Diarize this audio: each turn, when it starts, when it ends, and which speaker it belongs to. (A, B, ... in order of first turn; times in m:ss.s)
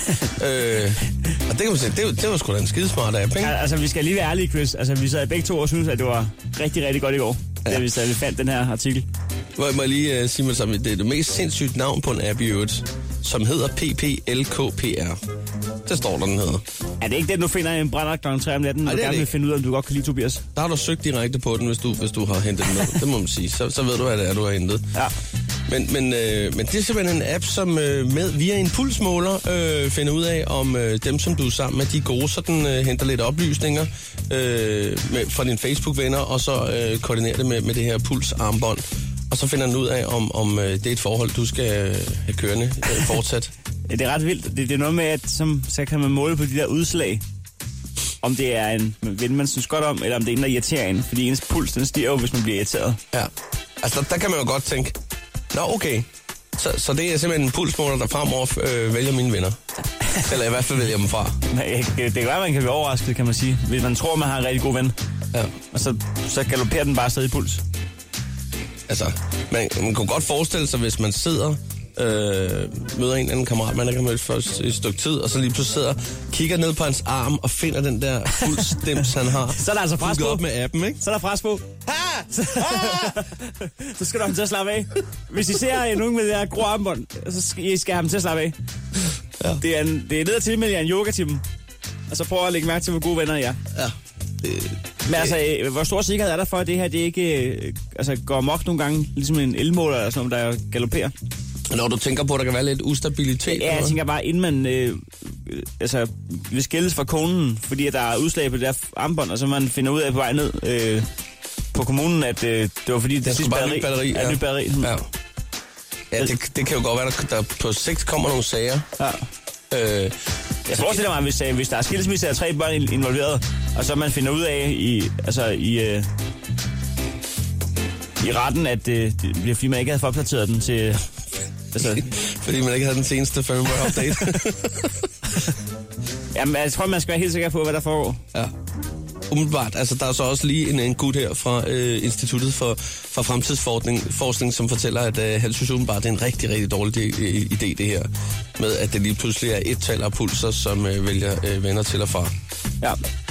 0:00.4-0:03.5 A
0:03.4-0:09.0 B
0:09.6-0:15.2 A
0:15.8-0:16.6 A
0:17.0-0:20.4 B
0:18.9-0:19.3 A
0:20.6-0:24.8 A
0:25.7-0:43.5 A
0:43.9-0:47.2 B
0:48.2-0:53.0 B
0:53.1-0:54.9 A
0:55.5-0:56.0 A
0:56.6-0:59.6 A
1:00.2-1:01.4 A
1:01.5-1:04.9 B
1:05.7-1:07.6 B
1:08.9-1:21.0 A
1:18.3-1:18.9 B
1:19.6-1:20.4 B
1:21.0-1:28.5 B
1:22.6-1:23.1 A
1:29.6-1:31.4 B
1:32.1-1:33.6 B
1:33.7-1:35.3 A
1:35.0-1:41.1 B
1:41.7-1:44.0 A
1:43.5-1:51.0 B
1:51.7-1:54.9 B
1:53.2-1:55.0 A
1:56.1-1:58.9 A
1:59.0-1:59.2 B
1:59.7-2:00.1 A
2:00.7-2:06.1 B
2:00.7-2:01.0 A
2:08.2-2:11.0 B
2:11.7-2:12.0 B
2:11.8-2:14.9 A
2:16.3-2:18.2 B
2:19.3-2:32.3 A